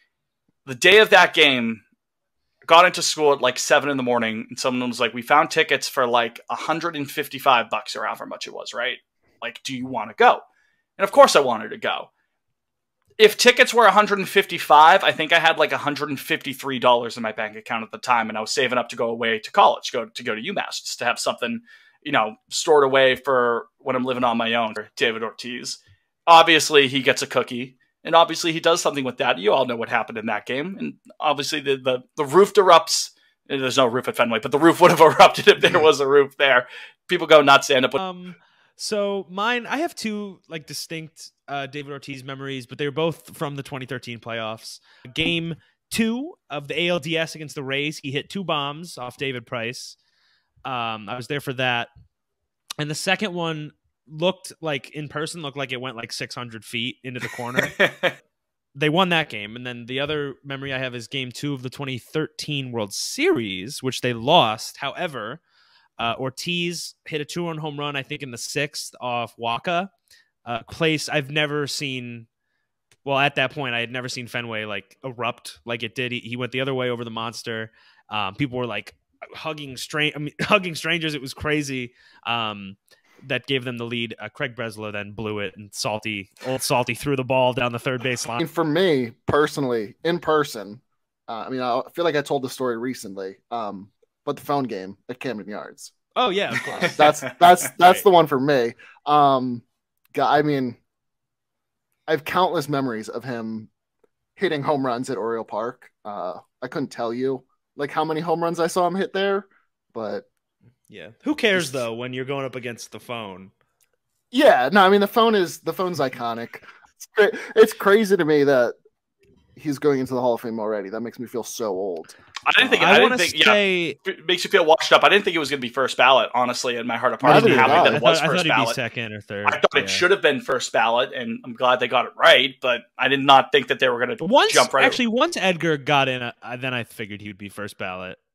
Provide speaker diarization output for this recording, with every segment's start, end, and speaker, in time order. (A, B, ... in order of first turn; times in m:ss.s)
0:00.7-0:01.8 A
0:02.6-0:10.4 A
0:11.0-0:12.1 A
0:13.2-0:38.0 A
0:38.0-0:50.0 B
0:50.6-0:51.9 B
0:52.8-0:57.8 B
0:57.6-0:58.1 A
0:58.8-1:05.4 B
1:06.0-1:09.9 B
1:10.4-1:12.3 B
1:13.0-1:28.4 B
1:28.3-1:35.9 C
1:36.2-1:38.0 B
1:36.6-1:40.8 C
1:42.1-1:43.7 C
1:44.4-1:50.3 C
1:50.9-1:53.5 B
1:51.6-1:51.9 C
1:54.3-1:58.8 C
1:59.6-2:02.2 C
2:02.4-2:08.8 A
2:02.6-2:04.0 B
2:07.2-2:08.0 C
2:07.2-2:10.0 B
2:09.5-2:15.0 A
2:14.2-2:18.2 B